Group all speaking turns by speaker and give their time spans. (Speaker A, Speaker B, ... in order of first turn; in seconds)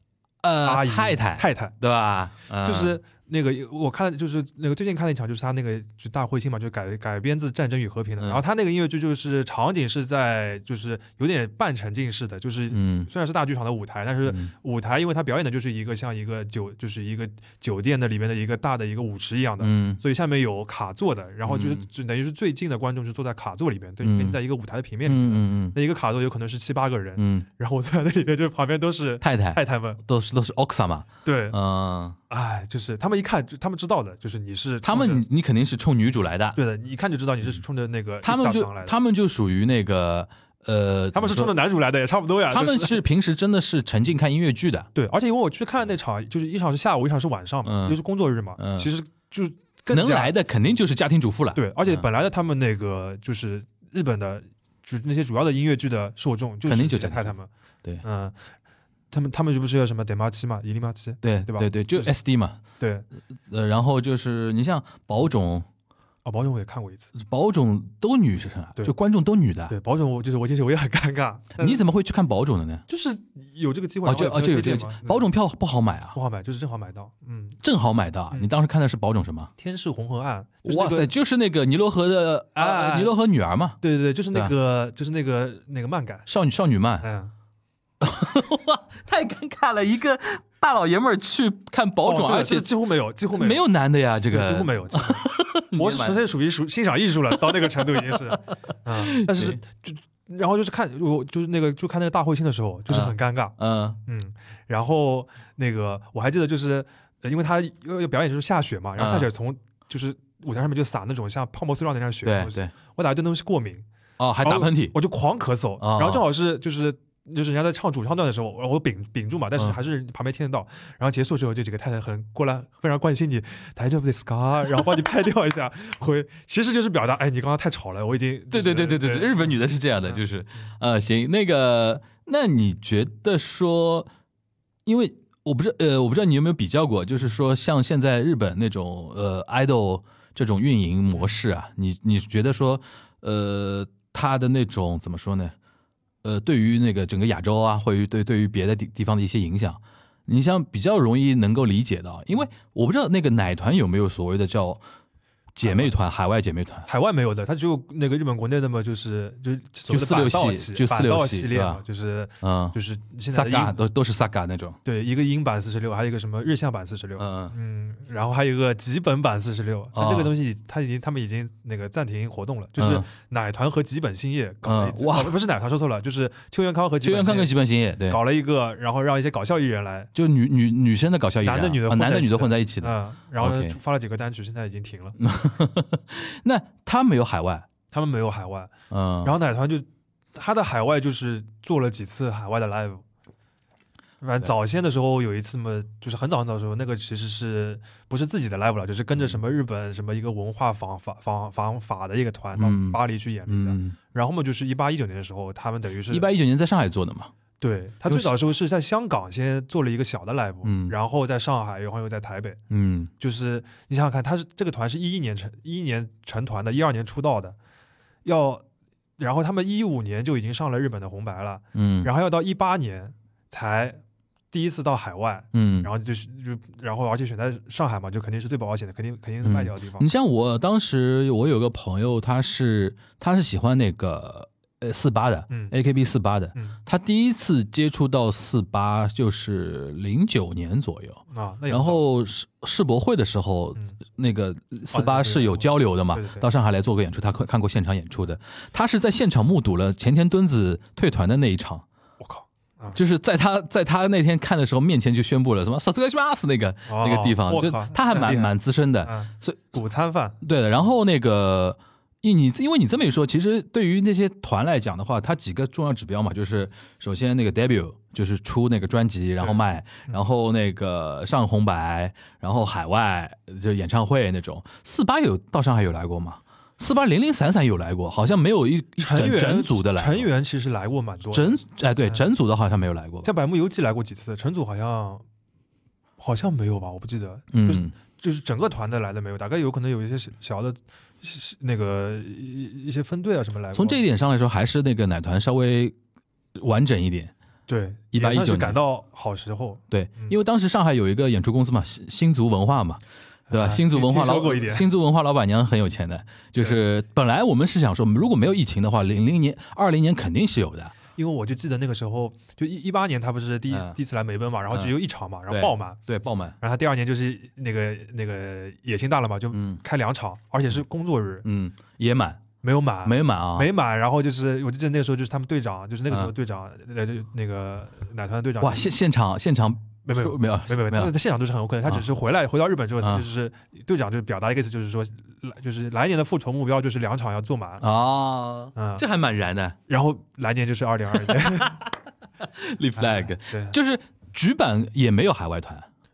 Speaker A: 0.4-3.0, 12.7-13.1, 14.2-14.5, 19.6-20.0, 21.4-21.8, 24.0-24.4, 25.1-25.8, 27.2-27.5, 29.2-32.2, 34.8-36.6, 38.2-41.5, 42.5-44.9, 47.6-48.0, 48.6-48.9, 49.9-52.0, 56.7-58.0, 61.2-62.6, 63.5-65.7, 67.1-69.7, 71.6-72.8, 74.0-76.2, 77.6-79.5, 80.6-83.8, 86.3-87.1, 88.0-92.7, 93.3-96.2, 97.5-98.4, 99.0-99.6, 102.9-104.0, 109.0-109.3, 112.2-112.7, 114.2-115.0, 115.8-116.2, 128.5-134.1, 134.8-145.5, 146.2-154.8, 155.6-156.9, 159.9-161.8, 162.4-162.8, 163.3-164.8, 167.2-167.5, 169.9-170.3, 172.8-173.1, 174.6-175.4, 177.0-178.2, 180.1-183.8, 185.2-187.7, 188.9-189.3, 202.6-204.0, 206.1-207.3, 208.1-208.3, 210.6-210.9, 212.7-213.1, 221.7-222.1, 225.5-225.9, 229.4-251.8, 252.9-259.6, 260.4-280.3, 281.3-283.3, 287.5-287.9, 293.7-295.9, 296.6-297.3, 298.1-298.8, 299.9-310.9, 313.7-314.0, 315.5-316.6, 319.5-319.8, 321.4-322.4, 323.1-323.7, 328.6-331.1, 337.8-339.8, 341.3-341.8, 342.4-345.9
Speaker B: 0.6-1.7, 2.6-30.0, 31.2-31.6, 32.3-35.2, 36.6-38.9, 41.1-43.0, 44.9-50.3, 51.5-57.5, 58.0-58.5, 59.1-62.1, 62.8-63.1, 66.2-67.1, 69.7-71.8, 72.9-75.3, 76.1-77.6, 79.6-81.1, 82.5-83.1, 83.8-86.3, 87.0-87.3, 92.0-93.6, 94.3-113.9, 114.4-130.7, 155.6-156.0, 156.9-163.8, 164.8-177.5, 178.1-180.1, 181.4-185.2, 187.9-188.7, 189.2-193.0, 194.2-206.3, 207.6-212.6, 213.2-217.6, 218.2-218.6, 219.2-224.0, 224.5-230.1, 235.5-235.7, 241.3-242.0, 244.9-246.5, 252.2-253.0, 256.9-260.4, 269.4-270.2, 279.0-282.2, 283.2-285.2, 286.2-294.0, 297.7-300.4, 303.5-304.9, 311.1-316.0, 316.6-321.4, 322.6-328.9, 330.1-337.9, 338.7-339.0, 339.9-341.8, 343.0-343.8